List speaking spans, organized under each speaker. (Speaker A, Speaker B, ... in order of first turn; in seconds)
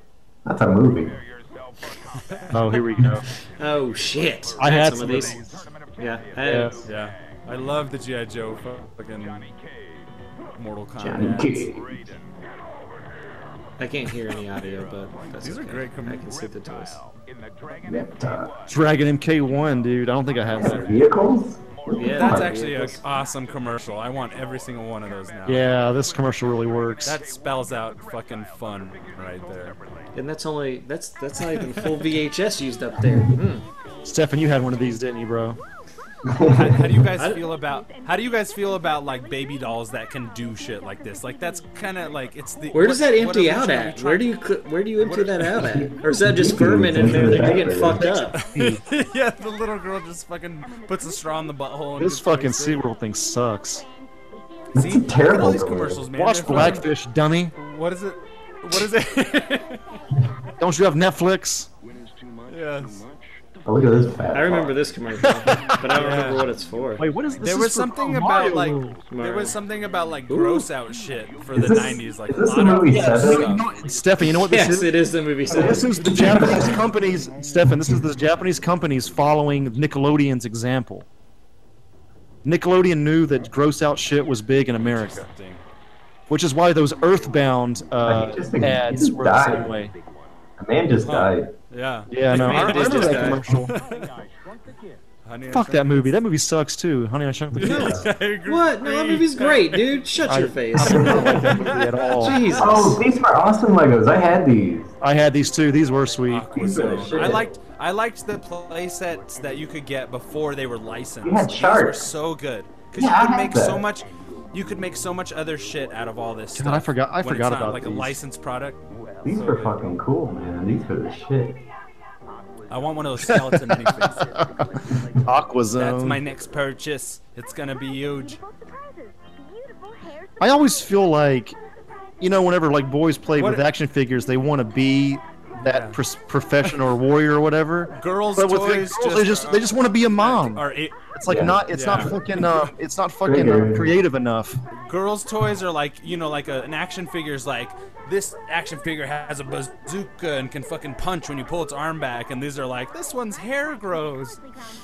Speaker A: 0.5-1.1, 11.0-12.0, 17.9-18.5, 20.6-22.5, 36.3-36.8, 45.6-48.1, 54.7-56.0, 63.6-64.8, 71.5-73.5, 88.0-89.8, 90.6-91.5, 97.6-98.1, 100.8-101.6, 102.6-104.9, 106.5-107.5, 111.2-112.1, 113.0-113.8, 119.2-121.6, 141.3-142.2, 143.2-144.0
Speaker B: 0.7-30.4, 31.4-33.0, 33.6-35.6, 36.2-42.8, 45.1-46.1, 47.5-48.4, 59.1-60.1, 61.8-80.0, 86.8-90.5, 92.4-95.2, 101.6-102.8, 106.0-107.6, 109.1-109.8, 113.5-116.5, 118.8-121.7, 122.2-125.5, 126.3-126.6, 128.2-129.1, 129.8-130.2
Speaker C: 2.5-3.3, 4.6-5.7, 6.4-6.8, 18.7-20.9, 25.5-27.2, 34.0-35.6, 47.9-48.8, 52.0-53.9, 56.1-57.5, 60.6-61.7, 65.5-65.8, 67.0-69.0, 72.9-75.0, 75.5-81.1, 82.5-85.3, 86.3-89.9, 92.1-93.8, 95.5-98.1, 100.2-102.4, 105.0-106.6, 116.5-118.2, 123.2-124.7, 125.2-126.2, 130.4-131.6, 132.2-144.6
Speaker D: 3.6-6.9, 13.8-17.0, 21.9-23.0, 30.1-33.7, 37.1-37.4, 42.7-48.4, 64.3-67.1, 69.1-69.6, 70.3-70.7, 74.2-76.8, 92.3-93.5, 98.5-101.6, 102.1-103.0
Speaker E: 6.8-9.5, 10.6-11.7, 15.4-16.3, 20.6-20.9, 22.1-25.8, 27.0-29.8, 31.4-32.1, 36.4-44.3, 45.0-45.7, 48.3-52.9, 54.8-56.9, 57.5-60.0, 62.5-63.1, 65.9-66.5, 67.4-73.7, 84.8-85.6, 91.0-94.1, 95.2-96.2, 97.5-100.2, 100.8-102.9, 106.3-118.8, 119.4-119.8, 122.7-124.4, 125.8-128.4, 133.3-133.7, 135.7-136.0, 137.9-141.0, 141.7-142.1, 144.7-154.4